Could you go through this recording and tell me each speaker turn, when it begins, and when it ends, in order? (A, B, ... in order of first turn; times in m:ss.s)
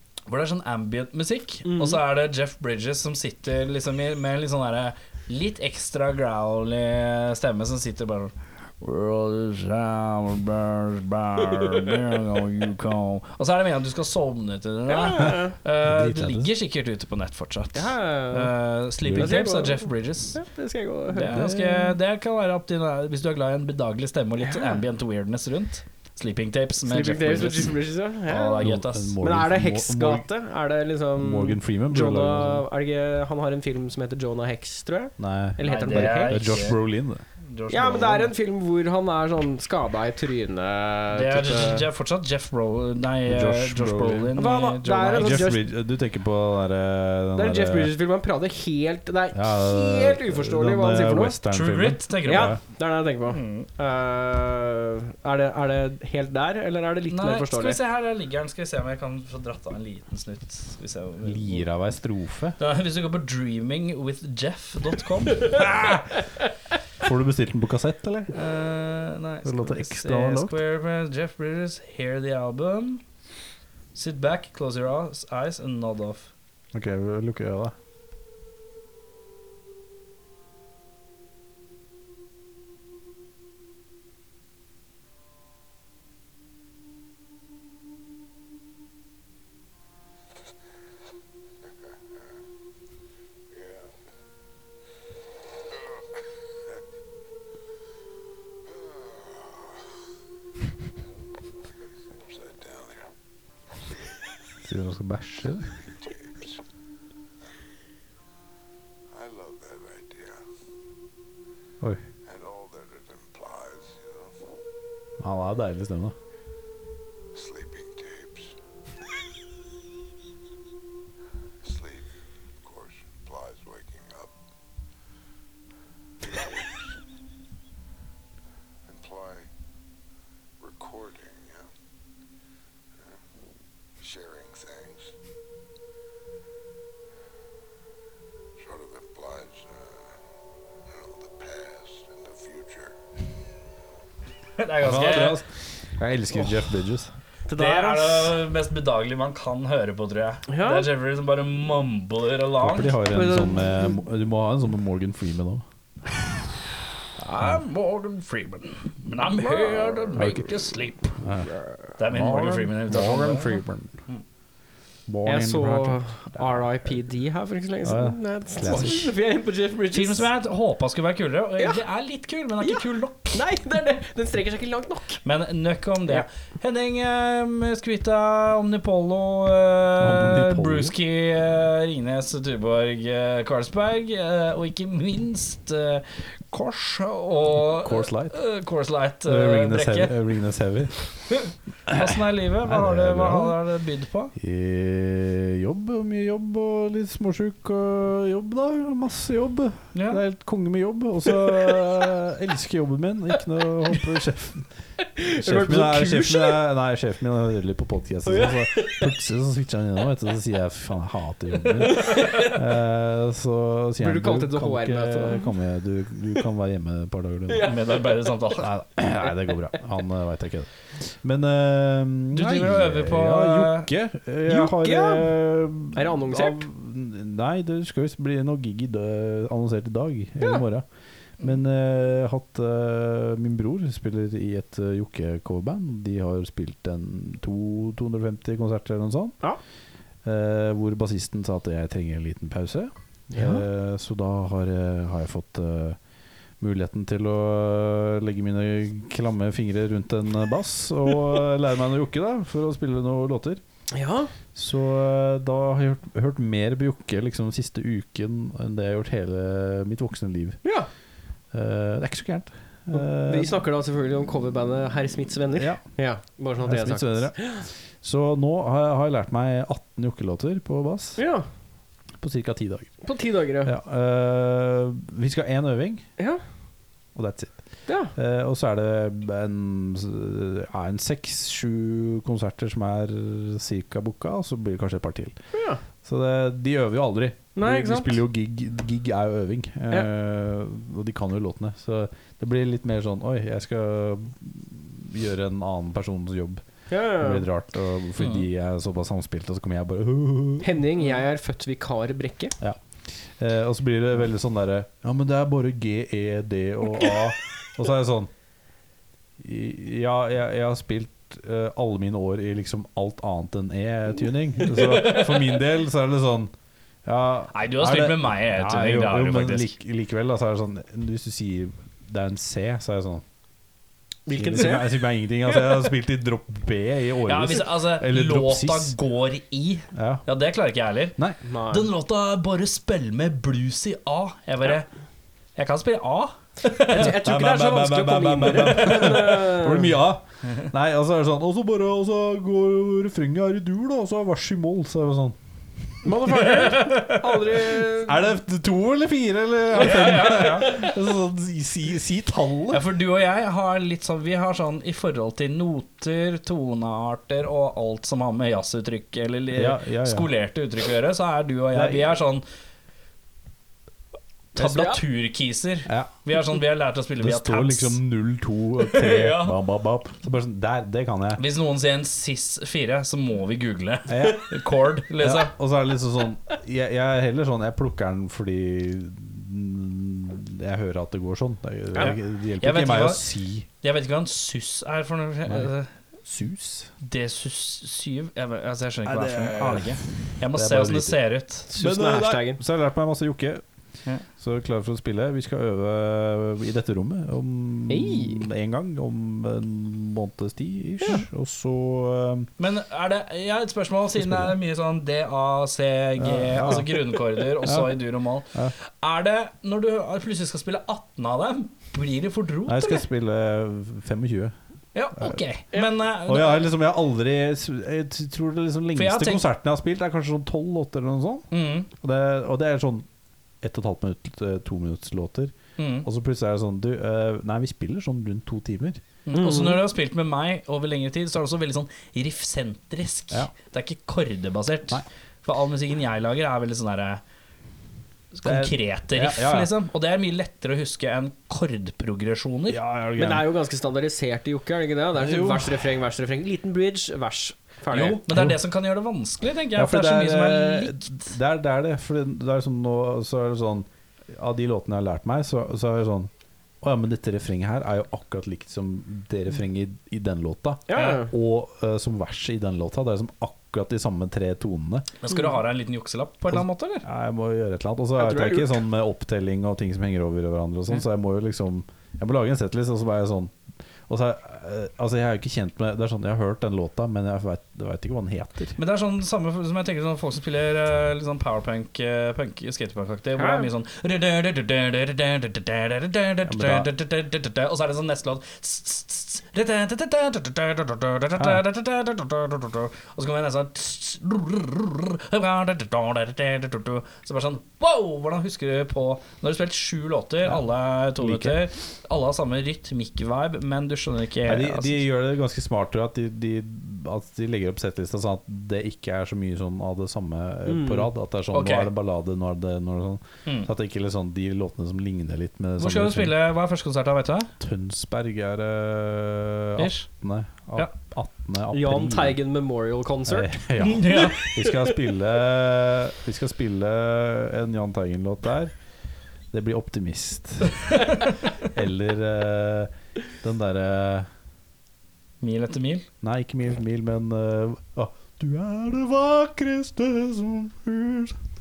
0:00.3-0:20.4 A
0:01.6-0:02.0 B
0:14.9-0:15.6 B
0:15.8-0:16.5 C
0:17.7-0:18.6 B
0:19.0-0:19.4 C
0:19.2-0:21.4 B
0:21.1-0:29.2 A
0:21.3-0:22.0 C
0:24.4-0:24.8 B
0:26.8-0:28.6 B
0:28.6-0:30.3 C
0:29.2-0:36.4 B
0:31.2-0:32.6 C
0:35.2-0:37.2 C
0:35.6-0:36.8 A
0:37.5-0:38.3 A
0:37.7-0:41.9 B
0:41.1-0:45.4 A
0:43.2-0:44.3 C
0:44.4-0:45.6 B
0:45.1-0:47.9 C
0:47.4-0:51.4 B
0:49.3-0:52.6 C
0:51.5-0:52.6 A
0:52.2-0:57.8 B
0:53.3-0:53.7 A
0:57.1-1:01.7 A
1:01.2-1:02.6 C
1:02.6-1:06.0 A
1:07.0-1:08.4 C
1:08.3-1:13.0 A
1:09.4-1:10.6 C
1:13.9-1:16.3 A
1:16.7-1:17.7 C
1:31.7-1:32.2 D
1:33.5-1:33.9 D
1:35.8-1:36.0 D
1:38.7-1:39.8 D
1:41.8-1:43.1 D
1:43.8-1:44.2 D
1:44.6-1:45.8 C
1:45.8-1:46.6 D
1:49.1-1:50.4 D
1:52.2-1:54.6 D
1:55.2-1:56.2 C
1:57.3-1:58.6 D
2:01.6-2:04.4 D
2:06.2-2:07.0 D
2:08.9-2:09.5 D
2:10.6-2:11.7 D
2:13.0-2:13.2 D
2:14.0-2:15.1 D
2:18.6-2:20.1 D
2:20.9-2:23.0 D
2:24.6-2:25.4 A
2:24.8-2:27.1 C
2:27.5-2:28.4 B
2:27.5-2:33.0 A
2:30.5-2:30.9 B
2:32.6-2:35.6 C
2:33.1-2:34.0 B
2:37.2-2:41.2 A
2:39.3-2:40.3 B
2:40.2-2:40.5 C
2:41.2-2:41.5 C
2:42.0-2:44.2 A
2:42.1-2:43.9 C
2:45.1-2:46.6 C
2:45.2-2:50.3 B
2:47.8-2:49.1 C
2:49.9-2:53.4 A
2:51.6-2:51.8 B
2:52.6-2:55.2 B
2:55.2-3:10.1 A
3:00.0-3:00.9 C
3:07.8-3:08.3 C
3:09.2-3:10.9 C
3:11.3-3:14.3 A
3:11.9-3:13.6 C
3:14.4-3:24.7 C
3:19.9-3:20.2 A
3:25.2-3:26.6 B
3:25.4-3:37.8 C
3:28.3-3:29.1 B
3:31.8-3:32.6 B
3:34.0-3:35.5 B
3:37.5-3:38.4 B
3:37.6-3:38.7 A
3:38.5-3:50.9 C
3:42.3-3:43.9 A
3:44.5-3:45.4 B
3:45.9-3:46.7 B
3:51.4-3:59.4 C
4:00.2-4:06.0 C
4:03.3-4:03.6 B
4:06.6-4:13.6 C
4:13.9-4:14.3 B
4:14.6-4:20.6 C
4:21.5-4:23.6 C
4:22.9-4:27.6 B
4:25.6-4:25.8 C
4:26.6-4:31.2 C
4:31.2-4:31.5 B
4:32.2-4:32.9 C
4:33.0-4:33.7 B
4:33.6-4:36.1 C
4:37.2-4:37.6 C
4:37.9-4:38.1 B
4:38.1-4:45.4 C
4:45.5-4:45.8 B
4:46.0-4:56.6 C
4:47.6-4:48.2 B
4:56.9-4:57.4 B
4:57.2-5:00.7 C
4:58.2-4:58.5 A
5:00.6-5:02.6 B
5:03.4-5:08.3 C
5:09.4-5:16.5 C
5:17.0-5:23.2 C
5:17.5-5:19.7 A
5:24.3-5:24.9 B
5:24.3-5:28.9 C
5:27.3-5:34.9 A
5:30.0-5:30.2 C
5:31.4-5:31.9 B
5:35.6-5:37.2 A
5:36.8-5:39.9 B
5:36.9-5:45.4 C
5:46.0-5:48.2 B
5:46.4-5:47.2 A
5:47.8-5:52.8 C
5:49.7-5:50.9 A
5:52.7-6:02.4 A
5:59.5-6:00.3 C
6:01.7-6:02.1 C
6:04.6-6:08.0 A
6:04.6-6:05.0 B
6:05.9-6:06.2 C
6:07.2-6:11.4 C
6:08.8-6:09.6 A
6:11.4-6:15.5 A
6:14.1-6:14.5 C
6:15.2-6:23.7 C
6:22.0-6:23.3 A
6:23.8-6:25.9 A
6:25.5-6:25.7 C
6:26.2-6:26.9 C
6:27.0-6:31.7 A
6:29.0-6:33.6 C
6:31.7-6:32.6 B
6:34.4-6:42.5 C
6:37.9-6:38.5 B
6:42.6-6:53.0 A
6:44.2-6:44.6 C
6:46.2-6:48.7 C
6:52.7-6:54.5 C
6:55.0-6:56.7 A
6:56.2-7:01.5 C
6:59.0-6:59.5 A
7:01.5-7:01.9 A
7:02.0-7:03.1 C
7:03.6-7:09.0 C
7:05.8-7:06.1 A
7:09.3-7:17.2 A
7:09.3-7:09.8 B
7:18.3-7:22.8 A
7:18.4-7:19.7 C
7:22.7-7:23.5 C
7:23.2-7:28.2 B
7:25.2-7:25.8 C
7:27.9-7:31.2 A
7:28.3-7:28.6 C
7:29.7-7:45.1 C
7:40.9-7:41.3 B
7:40.9-7:41.2 A
7:45.2-7:47.0 A
7:46.5-7:53.6 C
7:48.2-7:48.8 B
7:54.1-7:58.8 C
7:58.8-8:25.0 A
8:03.4-8:03.7 B
8:06.4-8:06.9 C
8:11.4-8:11.6 C
8:21.2-8:21.6 C
8:24.4-8:36.4 C
8:30.7-8:31.1 B
8:31.5-8:31.9 A
8:35.8-8:37.5 A
8:37.6-8:42.4 C
8:39.8-8:40.1 A
8:41.7-8:43.5 B
8:43.3-8:48.7 C
8:43.8-8:44.5 A
8:44.1-8:44.6 B
8:49.5-8:54.3 C
8:55.4-8:56.1 A
8:56.2-9:01.4 C